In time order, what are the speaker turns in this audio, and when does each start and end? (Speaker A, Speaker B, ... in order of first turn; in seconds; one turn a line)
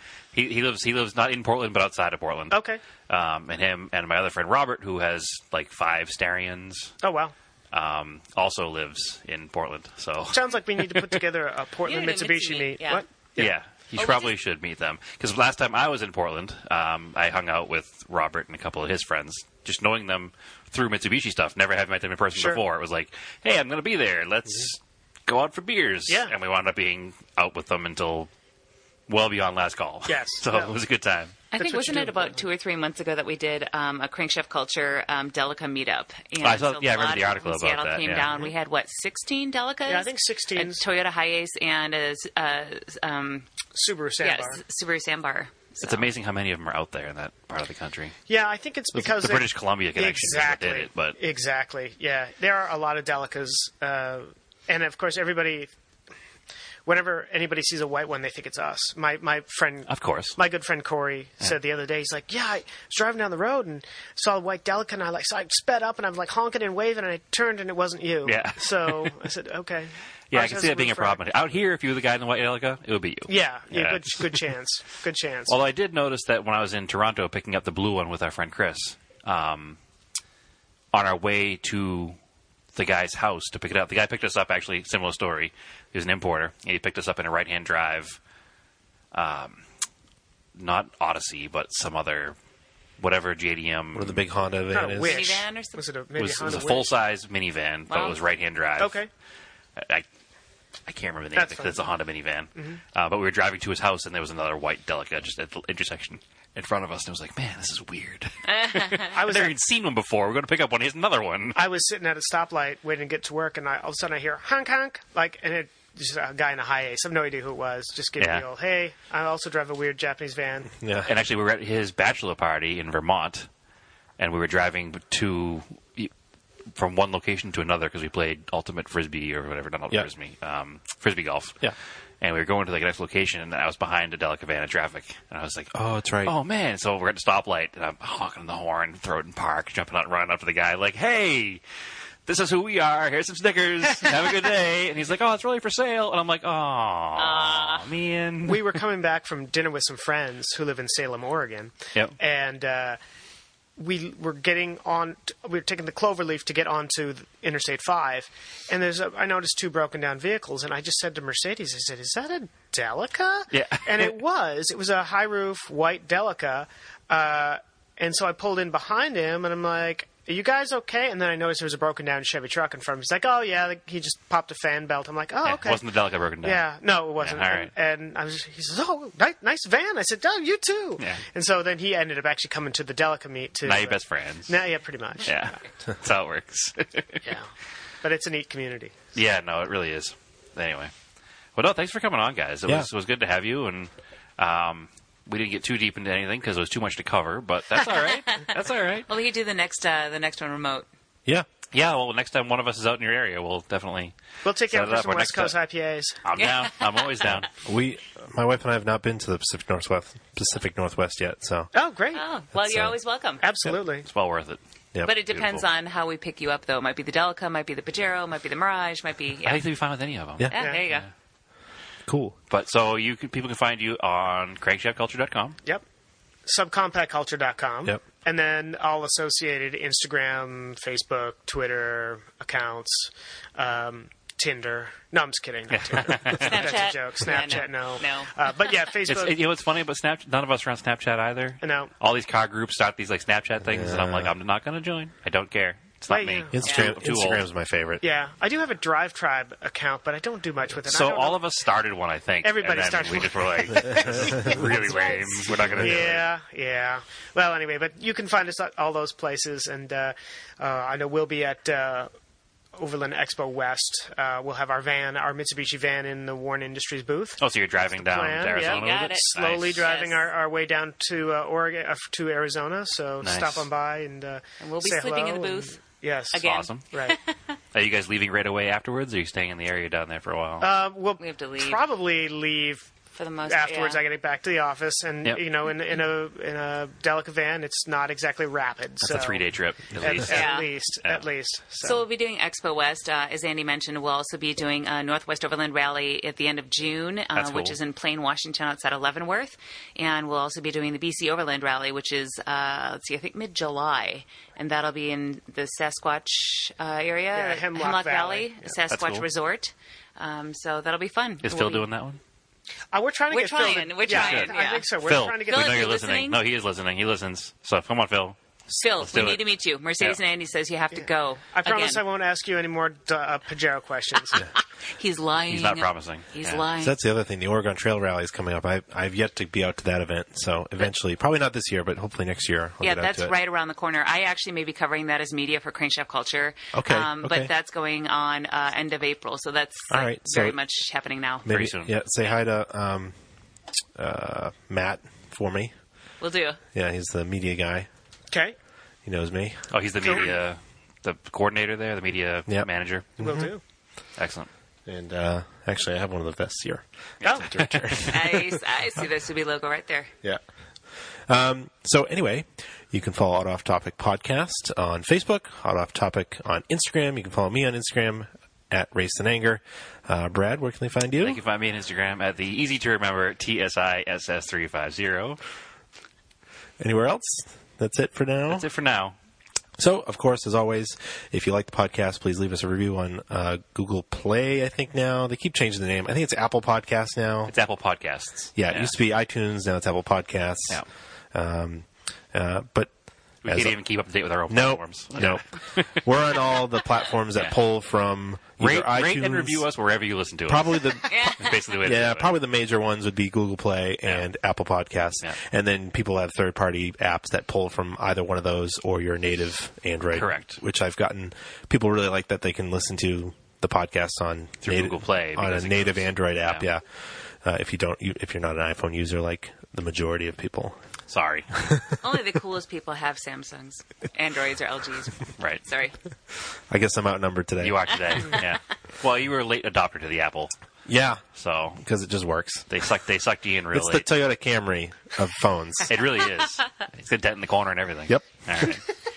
Speaker A: 0.3-7.0
Speaker B: 2.5-2.8
Speaker B: 7.0-7.3
Speaker A: 7.7-11.2
Speaker B: 10.3-13.5
Speaker C: 11.9-13.0
Speaker A: 13.4-28.3
Speaker C: 14.0-14.3
Speaker B: 22.4-22.6
Speaker B: 26.1-26.3
Speaker A: 29.1-31.4
Speaker B: 30.1-30.8
Speaker C: 31.5-43.5
Speaker B: 31.5-32.4
Speaker A: 36.4-38.4
Speaker B: 39.9-40.8
Speaker B: 43.7-44.6
Speaker C: 44.2-46.1
Speaker A: 45.8-48.2
Speaker B: 48.3-55.7
Speaker A: 49.0-51.2
Speaker B: 56.9-71.2
Speaker A: 59.9-60.4
Speaker A: 68.3-69.2
Speaker A: 70.3-74.4
Speaker B: 73.3-75.5
Speaker A: 75.5-79.8
Speaker A: 80.9-82.2
Speaker A: 82.7-88.2
Speaker A: 89.1-89.6
Speaker A: 90.5-92.4
Speaker A: 93.0-94.2
Speaker D: 93.9-95.3
Speaker B: 94.7-96.9
Speaker C: 95.0-95.8
Speaker A: 96.2-99.0
Speaker C: 97.9-98.2
Speaker B: 98.8-99.1
Speaker A: 99.8-100.1
Speaker A: 100.9-111.6
Speaker B: 101.3-101.8
Speaker C: 108.5-109.1
Speaker B: 109.1-109.6
Speaker B: 111.5-120.7
Speaker A: 118.2-118.5
Speaker D: 120.8-121.1
Speaker A: 121.0-123.5
Speaker A: 124.2-126.1
Speaker A: 126.7-131.6
Speaker A: 132.2-141.6
Speaker D: 135.7-136.3
Speaker A: 142.3-148.8
Speaker C: 147.2-147.9
Speaker B: 148.4-153.0
Speaker B: 153.8-175.8
Speaker A: 163.5-164.1
Speaker A: 175.4-177.7
Speaker B: 176.4-185.5
Speaker A: 183.7-184.6
Speaker A: 185.2-187.2
Speaker B: 187.2-187.5
Speaker B: 188.0-189.0
Speaker A: 189.1-190.9
Speaker A: 191.6-199.1
Speaker C: 199.1-200.9
Speaker A: 201.7-205.6
Speaker B: 204.4-206.2
Speaker A: 206.2-207.5
Speaker D: 207.7-211.7
Speaker B: 211.7-212.2
Speaker C: 212.1-213.4
Speaker D: 212.5-212.9
Speaker B: 213.4-214.1
Speaker A: 214.1-214.6
Speaker C: 215.0-219.6
Speaker A: 215.3-215.7
Speaker A: 219.4-221.1
Speaker C: 220.5-221.1
Speaker B: 220.5-220.8
Speaker D: 222.1-222.4
Speaker A: 222.5-225.6
Speaker B: 226.5-239.4
Speaker A: 235.7-236.7
Speaker C: 236.3-238.3
Speaker A: 239.1-247.5
Speaker B: 241.6-241.9
Speaker D: 243.7-244.3
Speaker B: 246.1-246.6
Speaker D: 246.5-248.0
Speaker C: 246.6-246.9
Speaker B: 248.0-251.4
Speaker A: 250.8-256.2
Speaker B: 252.4-262.1
Speaker D: 254.1-254.6
Speaker D: 255.5-256.1
Speaker B: 262.8-277.2
Speaker A: 267.4-269.9
Speaker C: 268.6-269.3
Speaker C: 269.8-270.3
Speaker A: 273.2-273.7
Speaker C: 274.6-275.8
Speaker C: 276.3-277.6
Speaker A: 276.4-276.8
Speaker A: 277.7-280.7
Speaker B: 280.6-282.9
Speaker C: 281.2-281.8
Speaker C: 283.1-284.0
Speaker B: 283.4-289.4
Speaker A: 289.0-291.2
Speaker B: 290.0-292.0
Speaker C: 290.3-290.7
Speaker C: 291.8-311.9
Speaker A: 297.4-297.8
Speaker B: 307.3-308.7
Speaker A: 308.9-309.3
Speaker A: 311.4-312.2
Speaker B: 312.9-315.9
Speaker C: 313.3-314.9
Speaker A: 314.1-318.4
Speaker C: 315.5-316.4
Speaker C: 318.7-322.0
Speaker A: 319.0-319.4
Speaker B: 321.0-324.5
Speaker C: 324.9-327.0
Speaker A: 325.5-326.6
Speaker D: 326.8-333.3
Speaker C: 332.8-341.5
Speaker D: 336.7-337.5
Speaker D: 339.9-340.6
Speaker D: 341.4-343.1
Speaker A: 341.5-341.9
Speaker D: 343.9-345.7
Speaker C: 346.2-346.6
Speaker D: 346.7-347.9
Speaker D: 349.1-349.7
Speaker A: 349.7-353.1
Speaker B: 350.0-350.3
Speaker D: 353.2-353.5
Speaker B: 353.2-353.6
Speaker A: 354.2-354.5
Speaker D: 354.9-358.6
Speaker A: 357.2-358.2
Speaker B: 357.2-357.5
Speaker C: 358.1-360.1
Speaker D: 360.9-371.4
Speaker A: 371.2-375.4
Speaker D: 376.8-378.7
Speaker A: 378.5-379.2
Speaker D: 379.8-387.5
Speaker A: 387.5-388.9
Speaker D: 388.6-392.9
Speaker A: 393.4-396.0
Speaker D: 393.4-393.8
Speaker D: 394.5-399.7
Speaker A: 398.6-402.3
Speaker D: 400.5-420.8
Speaker C: 401.1-401.6
Speaker A: 410.1-410.6
Speaker A: 414.6-416.6
Speaker A: 421.1-421.5
Speaker D: 421.6-421.8
Speaker C: 422.0-426.0
Speaker A: 425.4-425.6
Speaker D: 426.7-428.4
Speaker A: 427.6-430.5
Speaker D: 430.9-431.2
Speaker A: 431.4-431.8
Speaker D: 431.8-432.7
Speaker A: 432.7-434.1
Speaker D: 433.7-435.9
Speaker A: 435.9-438.8
Speaker D: 438.1-438.7